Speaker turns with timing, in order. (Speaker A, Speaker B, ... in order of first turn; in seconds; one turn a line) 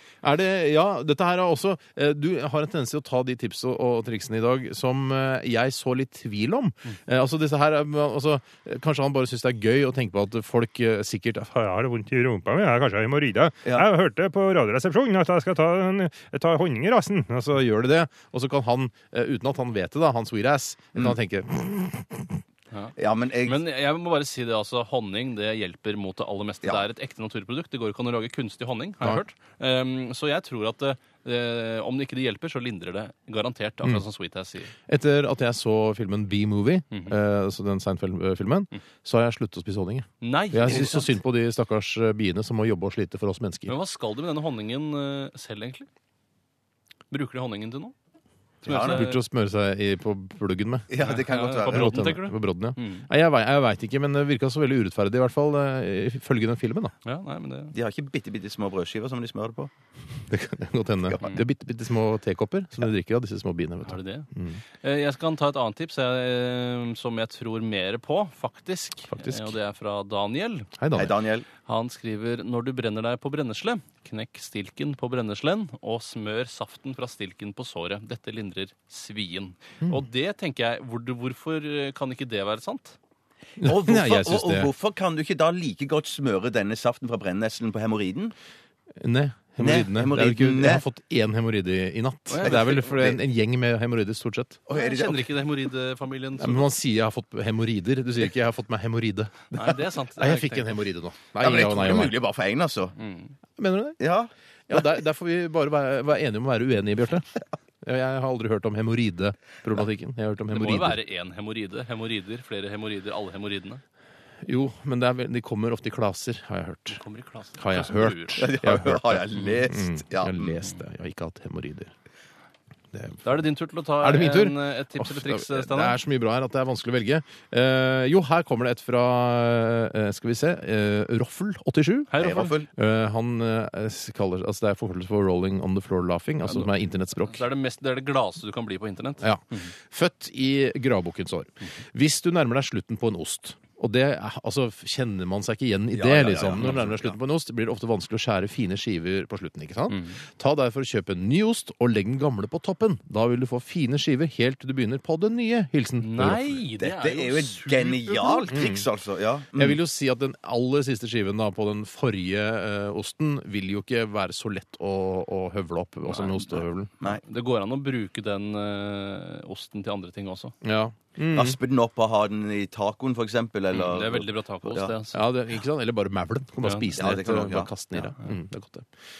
Speaker A: 0.2-11.6
Speaker B: 11.6-17.4
Speaker A: 17.3-22.3
Speaker C: 22.7-34.7
Speaker D: 23.0-23.6
Speaker A: 34.9-43.7
Speaker C: 40.2-41.1
Speaker C: 43.7-45.9
Speaker C: 47.1-48.0
Speaker C: 48.6-49.2
Speaker D: 48.7-49.0
Speaker A: 48.7-50.9
Speaker D: 50.9-52.0
Speaker C: 51.0-53.1
Speaker A: 51.7-56.9
Speaker C: 57.0-57.8
Speaker D: 57.7-59.7
Speaker A: 60.3-64.6
Speaker C: 63.9-64.3
Speaker C: 64.8-70.7
Speaker A: 69.1-69.5
Speaker A: 70.8-71.1
Speaker D: 71.0-71.5
Speaker C: 71.7-83.0
Speaker A: 83.6-84.7
Speaker D: 83.6-88.3
Speaker A: 89.0-94.6
Speaker D: 89.6-90.8
Speaker C: 92.3-92.9
Speaker D: 92.4-93.2
Speaker D: 94.7-95.3
Speaker C: 94.7-96.7
Speaker A: 96.4-102.2
Speaker C: 99.5-100.8
Speaker D: 101.4-103.0
Speaker C: 103.0-103.3
Speaker A: 103.6-104.0
Speaker D: 104.0-104.8
Speaker A: 104.7-111.0
Speaker C: 110.5-113.8
Speaker A: 114.4-117.0
Speaker C: 116.9-118.5
Speaker A: 117.6-121.9
Speaker D: 118.4-120.6
Speaker A: 122.9-123.2
Speaker C: 123.2-126.0
Speaker A: 124.0-132.1
Speaker C: 132.1-132.6
Speaker D: 132.2-132.7
Speaker A: 132.7-137.4
Speaker C: 136.4-136.7
Speaker C: 137.3-139.7
Speaker A: 139.2-156.6
Speaker D: 145.9-147.1
Speaker C: 146.6-147.0
Speaker C: 149.9-150.2
Speaker C: 156.0-158.6
Speaker D: 156.8-159.8
Speaker A: 158.5-158.8
Speaker A: 159.6-166.9
Speaker C: 166.1-166.4
Speaker C: 167.1-170.5
Speaker A: 170.6-171.6
Speaker D: 171.3-174.9
Speaker C: 173.7-175.2
Speaker A: 175.1-178.9
Speaker C: 176.6-176.9
Speaker D: 177.0-177.7